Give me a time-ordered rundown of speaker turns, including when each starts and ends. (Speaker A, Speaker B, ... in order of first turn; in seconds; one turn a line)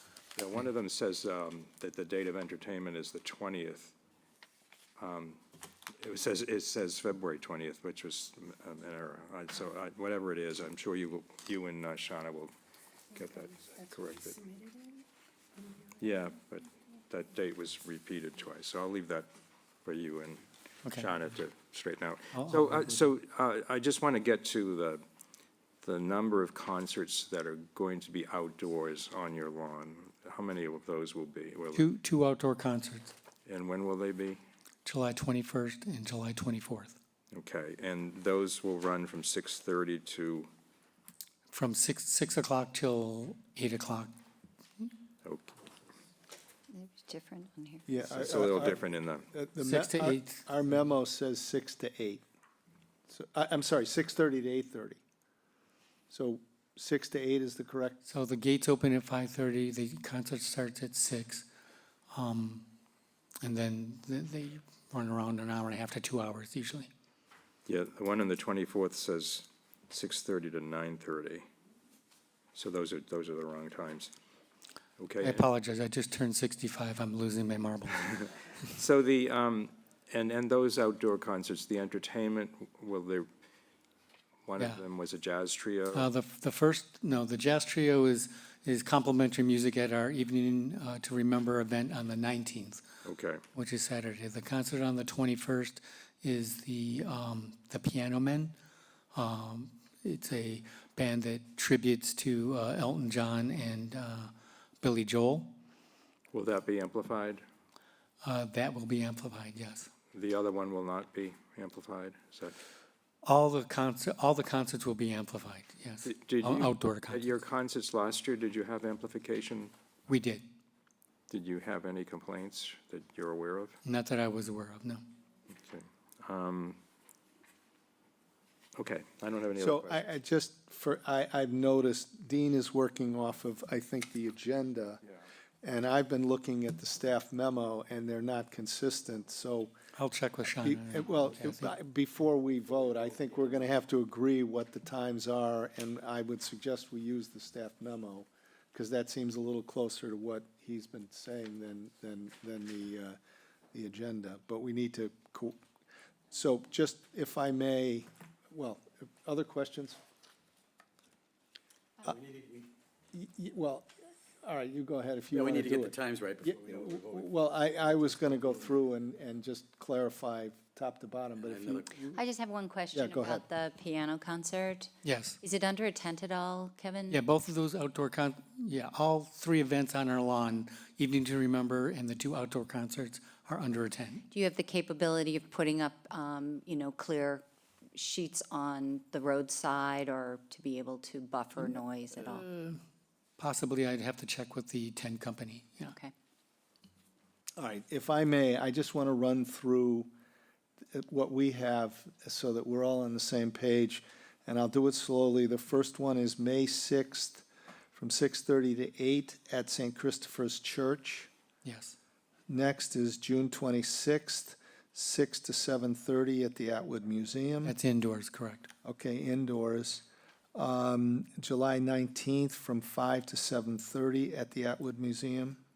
Speaker A: 0.3-3.9
Speaker A: 5.0-5.4
Speaker A: 6.0-12.5
Speaker A: 13.1-14.5
Speaker A: 15.9-19.3
Speaker A: 19.8-25.0
Speaker B: 20.8-21.1
Speaker B: 22.3-23.0
Speaker A: 25.8-31.9
Speaker B: 31.7-33.1
Speaker A: 33.5-34.4
Speaker B: 34.8-37.0
Speaker A: 37.3-40.5
Speaker B: 41.5-44.1
Speaker A: 45.2-45.5
Speaker C: 46.7-47.8
Speaker D: 47.9-52.2
Speaker A: 48.0-49.3
Speaker B: 49.6-50.5
Speaker D: 53.1-55.0
Speaker D: 56.1-58.0
Speaker B: 58.0-61.5
Speaker B: 62.1-62.7
Speaker B: 63.4-66.9
Speaker A: 67.7-71.5
Speaker A: 72.5-74.1
Speaker A: 75.0-75.5
Speaker B: 75.2-78.2
Speaker A: 78.7-83.3
Speaker A: 84.5-86.1
Speaker B: 85.9-92.8
Speaker A: 93.0-93.4
Speaker B: 93.5-98.5
Speaker B: 99.1-105.5
Speaker A: 106.3-107.4
Speaker B: 108.2-109.9
Speaker A: 110.1-112.6
Speaker B: 113.2-117.3
Speaker A: 116.0-119.7
Speaker B: 120.1-120.5
Speaker A: 121.3-123.8
Speaker B: 123.8-125.0
Speaker A: 125.5-126.8
Speaker A: 128.8-130.0
Speaker D: 129.6-135.0
Speaker D: 135.6-139.7
Speaker B: 139.9-141.7
Speaker D: 140.6-153.2
Speaker D: 153.7-155.6
Speaker D: 156.3-160.0
Speaker E: 162.1-162.6
Speaker D: 163.1-163.9
Speaker D: 164.4-172.2
Speaker E: 165.3-167.3
Speaker E: 168.3-168.5
Speaker E: 171.4-172.0
Speaker C: 172.1-174.9
Speaker D: 172.9-173.4
Speaker B: 175.0-175.4
Speaker C: 175.4-177.2
Speaker B: 177.1-184.2
Speaker C: 184.3-192.5
Speaker B: 192.2-192.8
Speaker B: 193.4-195.9
Speaker C: 195.9-196.1
Speaker D: 197.6-200.1
Speaker D: 200.9-211.3
Speaker B: 211.6-211.9
Speaker D: 212.5-217.8
Speaker B: 217.6-218.7
Speaker D: 218.8-225.6